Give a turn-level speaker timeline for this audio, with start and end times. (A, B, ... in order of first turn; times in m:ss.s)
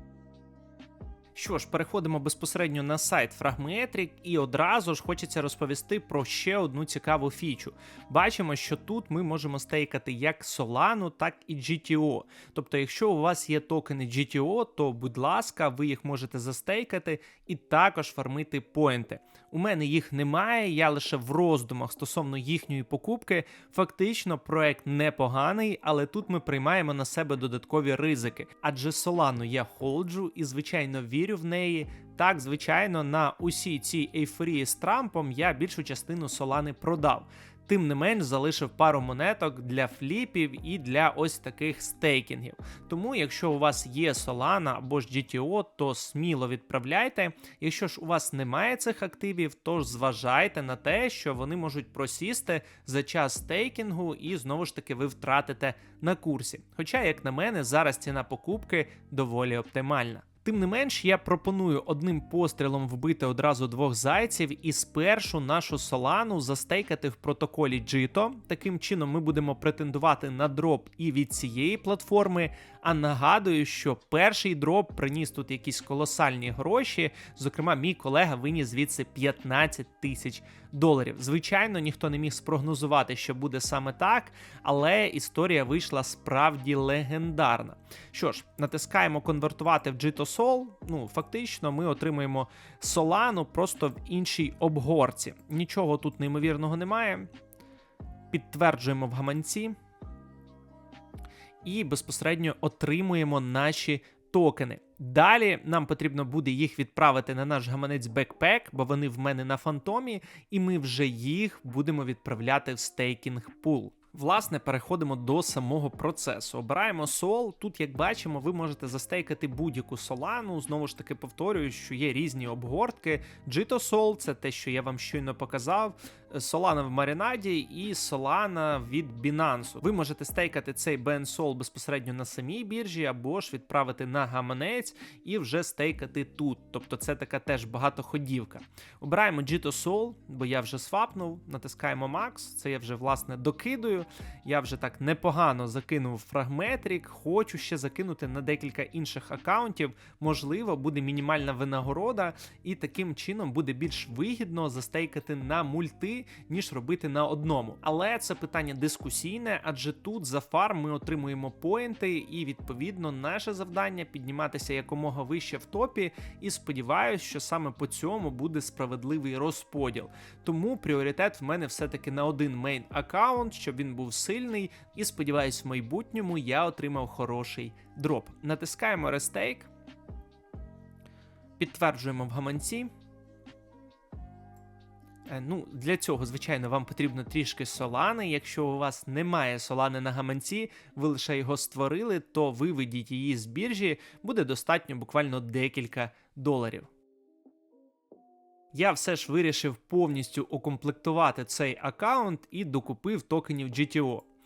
0:01.3-1:37.3 A
1:38.3-1:39.8 A
1:41.6-2:59.7 A
3:01.6-3:02.9 A
3:05.3-3:16.9 A
3:18.7-3:24.2 A